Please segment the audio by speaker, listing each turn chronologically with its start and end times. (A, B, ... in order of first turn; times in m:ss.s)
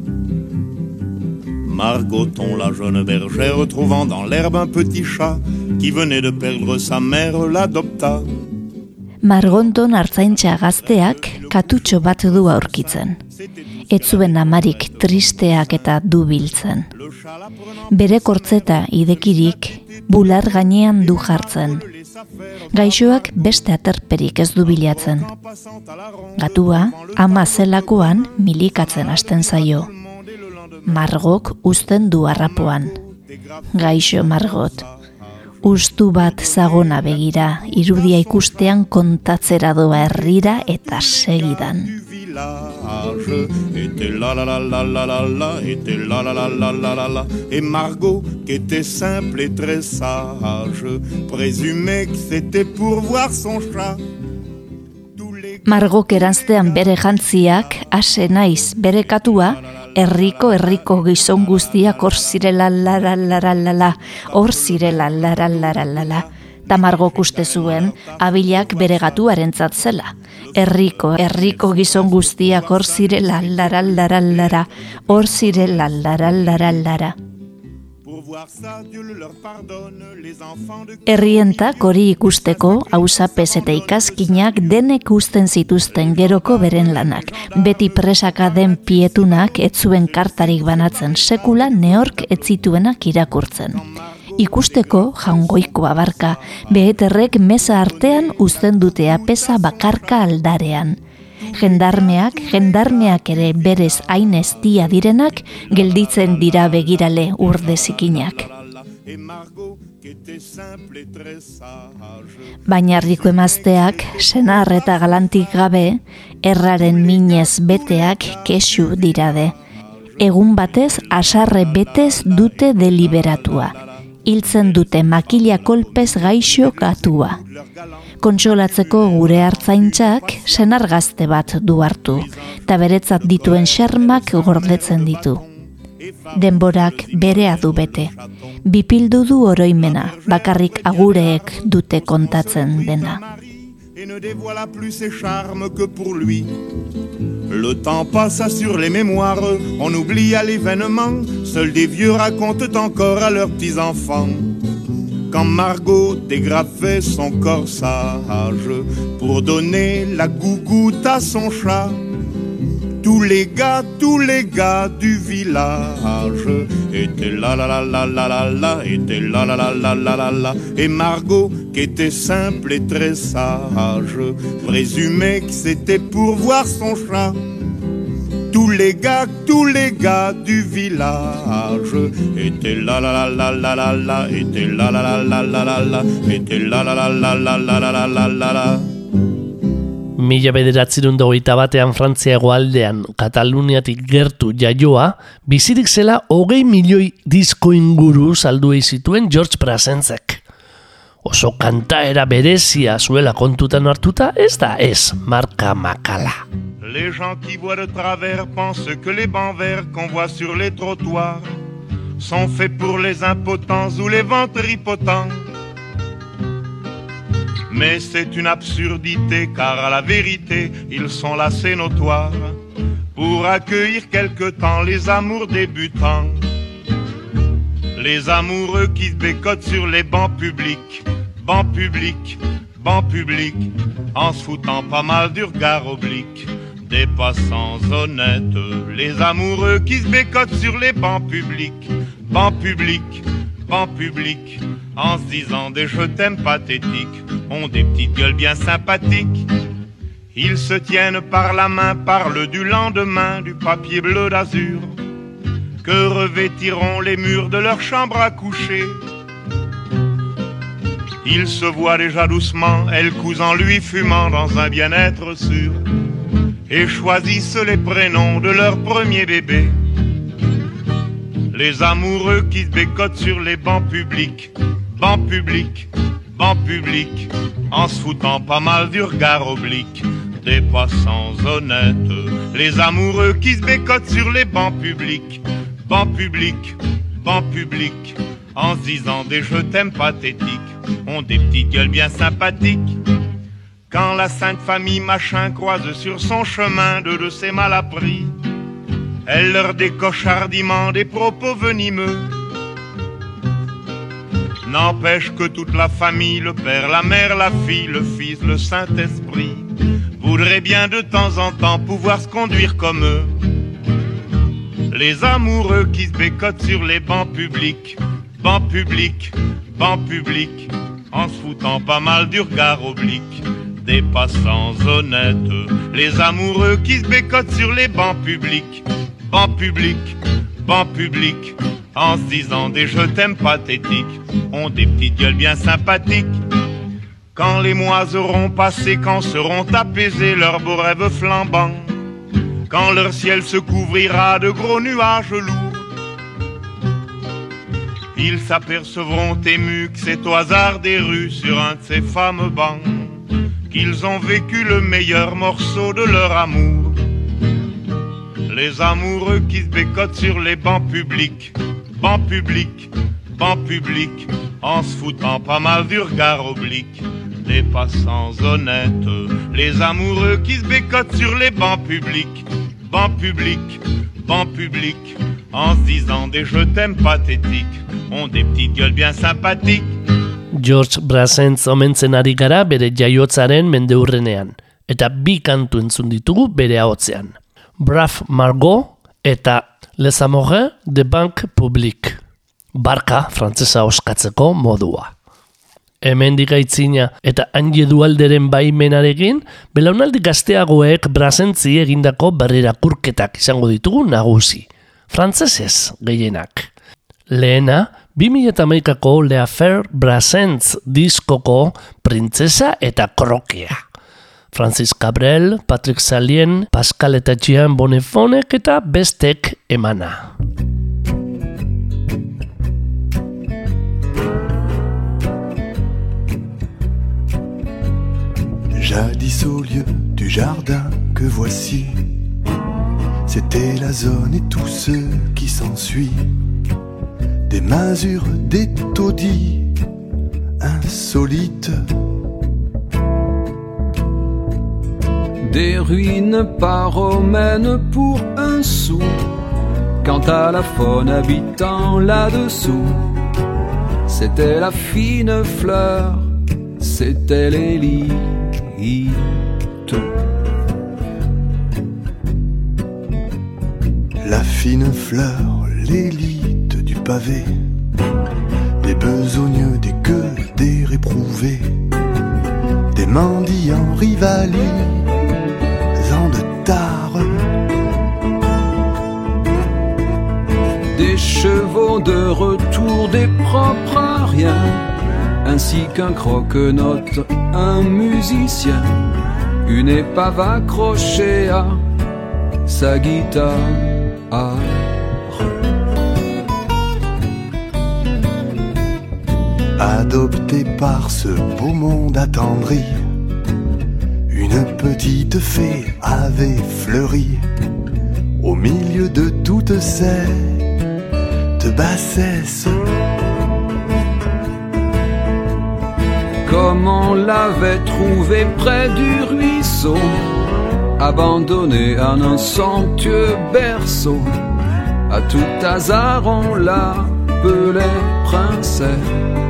0:01.6-0:08.3 A
0:09.2-0:13.2 B
0:10.3-0:13.0 A
0:13.9-0:16.8 B
0:13.9-0:15.7 A
0:16.9-0:23.4 A
0:17.9-0:21.8 B
0:22.8-0:25.2 B
0:24.6-0:31.1 A
0:26.4-0:29.9 B
0:30.9-0:32.9 B
0:32.4-0:34.9 A
0:33.8-0:34.8 B
0:35.6-0:38.6 A
0:35.6-0:41.9 B
0:40.0-0:54.0 A
0:55.2-0:56.8 A
0:55.7-1:17.1 B
0:59.2-1:02.3 A
1:04.3-1:09.4 A
1:10.4-1:16.6 A
1:18.0-1:21.9 A
1:21.1-1:33.8 B
1:22.4-1:24.8 A
1:25.8-1:32.5 A
1:34.4-1:40.3 A
1:34.4-1:41.0 B
1:41.6-1:48.4 B
1:42.6-1:43.0 A
1:43.6-1:44.0 A
1:45.5-1:52.2 A
1:52.7-1:59.5 B
1:53.0-1:55.6 A
1:56.8-1:58.4 A
2:00.2-2:03.8 A
2:00.2-2:03.7 B
2:04.3-2:07.3 B
2:04.5-2:10.8 A
2:08.2-2:15.4 B
2:12.2-2:18.3 A
2:16.4-2:18.1 B
2:18.7-2:23.2 B
2:19.7-2:26.5 A
2:27.5-2:34.5 A
2:35.3-2:42.0 A
2:43.0-2:57.4 A
2:58.5-3:08.8 A
3:10.2-3:20.4 C
3:21.2-3:26.4 C
3:26.8-3:31.4 A
3:32.2-3:35.4 A
3:37.7-3:42.5 A
3:43.1-3:46.4 A
3:48.0-4:09.5 A
4:10.3-4:14.9 A
4:15.8-4:19.0 A
4:21.2-4:25.8 A
4:26.7-4:29.7 A
4:31.5-4:52.9 A
4:53.9-4:58.3 A
4:59.2-5:02.3 A
5:04.6-5:09.6 A
5:10.2-5:13.3 A
5:14.9-5:36.4 A
5:37.3-5:41.8 A
5:42.7-5:45.8 A
5:48.1-5:53.1 A
5:53.7-5:57.0 A
5:58.5-6:19.9 A
6:20.5-6:32.2 C
6:32.7-6:35.1 C
6:36.0-6:46.7 C
6:47.3-6:53.8 C
6:54.5-7:00.3 C
7:08.8-7:12.0 D
7:13.2-7:16.2 D
7:17.5-7:19.7 D
7:20.6-7:21.8 D
7:25.4-7:29.2 E
7:30.0-7:33.1 E
7:34.1-7:36.3 E
7:36.8-7:40.0 E
7:44.2-7:47.5 D
7:48.8-7:51.7 D
7:52.9-7:55.0 D
7:56.0-7:57.4 D
8:00.9-8:04.8 E
8:05.4-8:09.0 E
8:09.6-8:11.8 E
8:12.6-8:15.4 E
8:19.8-8:23.0 D
8:24.3-8:27.4 D
8:28.4-8:30.7 D
8:31.6-8:32.8 D
8:36.4-8:40.2 E
8:41.0-8:44.3 E
8:45.1-8:49.1 E